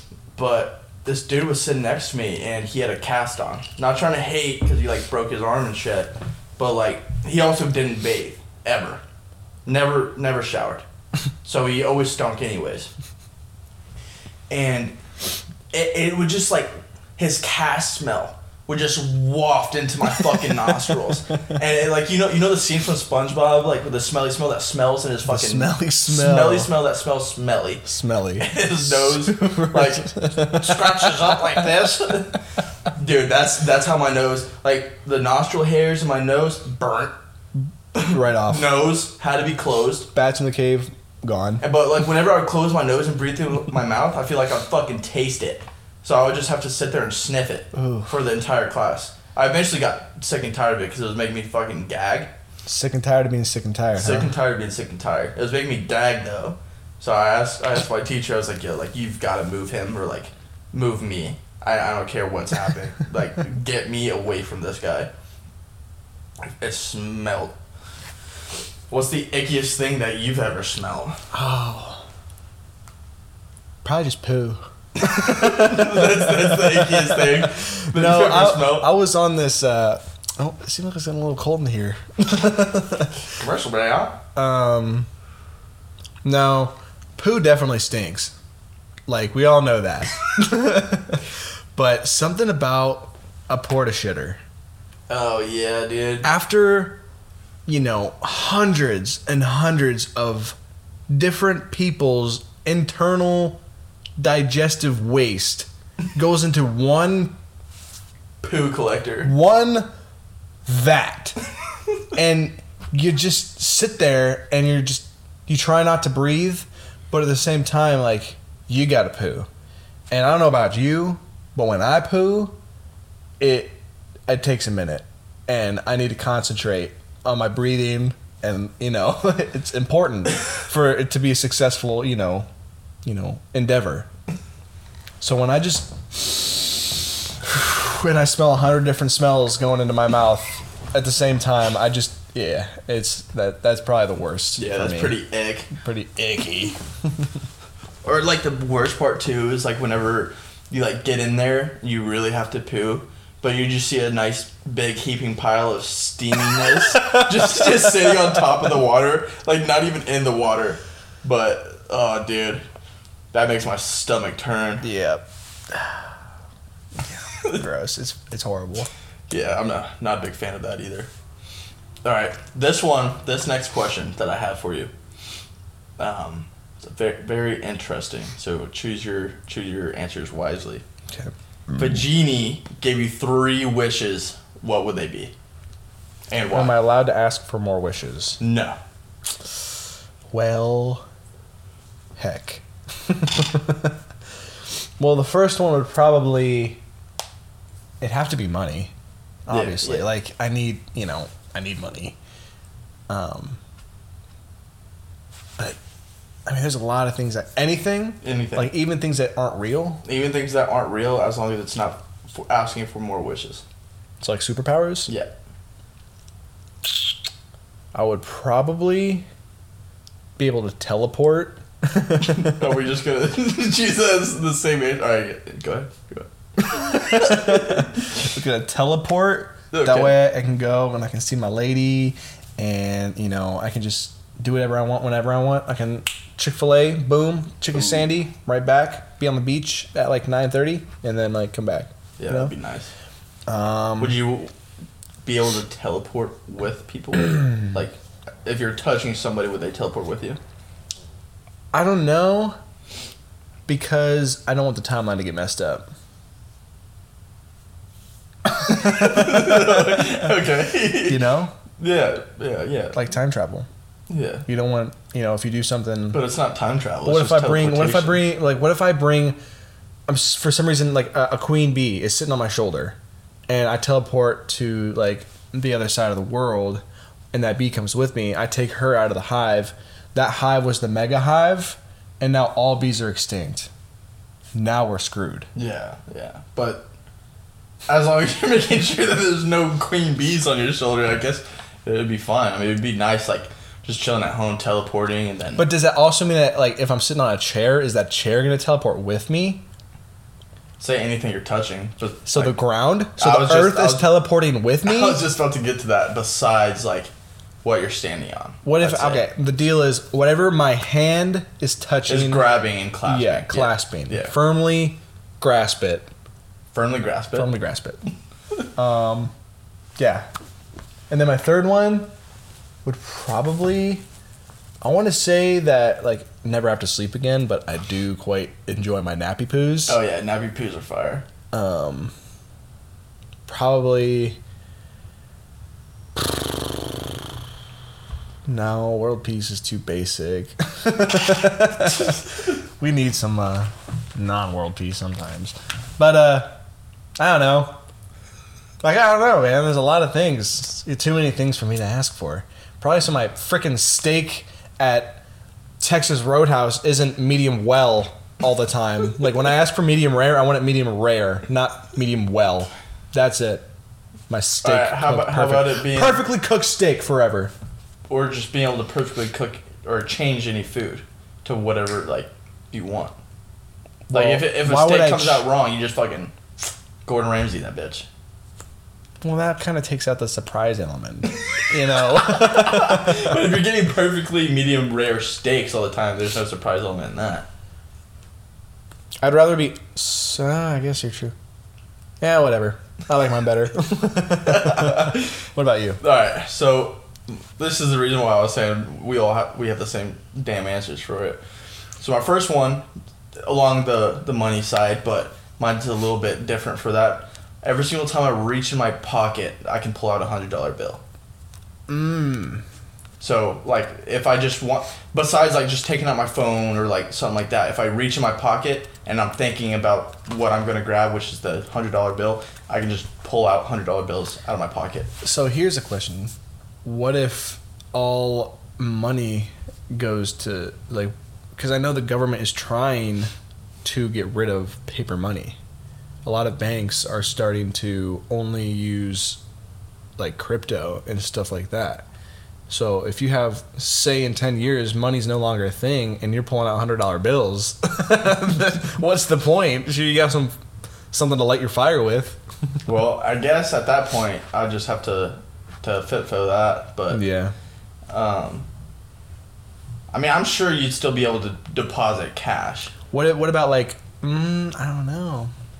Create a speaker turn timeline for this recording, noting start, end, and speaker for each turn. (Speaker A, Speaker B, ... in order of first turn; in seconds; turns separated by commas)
Speaker A: 0.3-9.0, Speaker A: 9.7-10.8, Speaker A: 11.4-12.9, Speaker A: 14.5-14.9, Speaker A: 15.7-27.9, Speaker B: 25.2-26.7, Speaker B: 27.8-32.2, Speaker A: 28.4-32.4, Speaker A: 32.9-37.1, Speaker A: 37.9-40.1, Speaker B: 38.0-38.7, Speaker B: 40.1-41.6, Speaker A: 41.6-52.3, Speaker B: 47.7-48.2, Speaker B: 52.6-54.3, Speaker A: 54.0-65.1, Speaker A: 66.6-67.5, Speaker A: 68.9-71.2, Speaker B: 71.3-72.0, Speaker B: 73.8-83.2, Speaker A: 75.0-78.9, Speaker A: 83.3-84.2, Speaker B: 84.3-85.1, Speaker B: 86.2-88.3, Speaker B: 89.1-94.4, Speaker A: 95.1-96.3, Speaker B: 96.2-97.0, Speaker B: 97.7-100.5, Speaker B: 101.1-103.6, Speaker B: 104.2-107.3, Speaker A: 108.4-109.3, Speaker B: 109.2-109.9, Speaker B: 110.7-111.4, Speaker B: 112.1-119.5, Speaker B: 120.1-122.6, Speaker B: 123.4-132.5, Speaker B: 133.0-134.1, Speaker B: 135.2-145.2, Speaker A: 144.6-145.7, Speaker B: 145.7-147.4, Speaker A: 148.0-162.6, Speaker B: 157.0-157.3, Speaker A: 163.3-164.9, Speaker B: 164.8-166.0, Speaker B: 167.0-168.9, Speaker A: 167.4-167.6, Speaker A: 169.3-171.1, Speaker A: 172.0-174.9, Speaker A: 176.0-180.8, Speaker B: 181.1-182.1, Speaker A: 181.8-185.3, Speaker A: 186.3-186.8, Speaker B: 186.5-188.4, Speaker A: 188.4-188.8, Speaker B: 190.3-191.1, Speaker B: 192.2-193.9, Speaker B: 195.0-196.8, Speaker B: 198.0-198.9, Speaker B: 199.4-202.2, Speaker A: 199.5-200.1, Speaker B: 203.1-203.6, Speaker B: 206.4-210.0, Speaker A: 208.2-208.7, Speaker A: 210.0-213.6, Speaker B: 214.2-215.1, Speaker A: 215.1-215.3, Speaker B: 217.9-219.2, Speaker B: 220.4-222.6, Speaker A: 222.2-227.9, Speaker B: 226.6-242.5, Speaker A: 229.7-230.2, Speaker A: 242.2-242.9, Speaker B: 243.5-244.2, Speaker A: 244.0-244.5, Speaker A: 245.2-250.4, Speaker B: 251.7-252.6, Speaker B: 253.7-255.9, Speaker B: 258.4-260.3, Speaker A: 258.6-261.2, Speaker B: 260.9-261.5, Speaker A: 261.8-263.0, Speaker B: 262.9-263.7, Speaker A: 264.1-264.4, Speaker B: 264.5-266.2, Speaker A: 266.1-268.3, Speaker B: 267.0-269.4, Speaker B: 270.1-273.0, Speaker B: 273.5-283.7, Speaker B: 284.5-285.5, Speaker A: 285.5-286.9, Speaker A: 287.9-295.7, Speaker B: 295.6-299.6, Speaker A: 300.8-302.6, Speaker B: 302.2-305.2, Speaker A: 303.2-304.1, Speaker A: 304.8-307.1, Speaker A: 307.6-309.2, Speaker B: 308.6-312.5, Speaker A: 312.1-314.3, Speaker B: 313.0-316.1, Speaker A: 316.7-317.5, Speaker B: 317.3-318.0, Speaker B: 318.8-319.3, Speaker B: 320.0-320.2, Speaker B: 321.1-322.1, Speaker B: 322.8-324.0, Speaker B: 324.8-330.0, Speaker A: 329.9-331.2, Speaker B: 331.5-332.1, Speaker B: 333.5-334.4, Speaker B: 336.1-336.5, Speaker B: 338.4-346.5, Speaker B: 347.2-347.8, Speaker B: 348.8-355.2, Speaker B: 355.8-363.7, Speaker B: 364.3-367.5, Speaker A: 364.6-366.2, Speaker A: 368.1-373.1, Speaker B: 374.1-375.4, Speaker A: 374.1-376.3, Speaker A: 377.0-378.1, Speaker B: 379.2-383.4, Speaker A: 381.3-387.5, Speaker B: 389.2-391.3, Speaker B: 392.2-396.0, Speaker A: 394.4-395.4, Speaker A: 396.0-401.4, Speaker A: 402.0-402.8, Speaker A: 403.4-411.0, Speaker B: 411.9-412.6, Speaker A: 413.2-425.1, Speaker B: 425.2-426.3, Speaker B: 426.8-433.3, Speaker B: 433.8-435.6, Speaker B: 436.2-439.4, Speaker B: 440.2-442.1, Speaker B: 442.7-450.6, Speaker B: 451.1-452.4, Speaker A: 452.9-457.2, Speaker B: 457.1-457.5, Speaker A: 458.1-458.7, Speaker A: 460.1-462.9, Speaker B: 463.1-465.5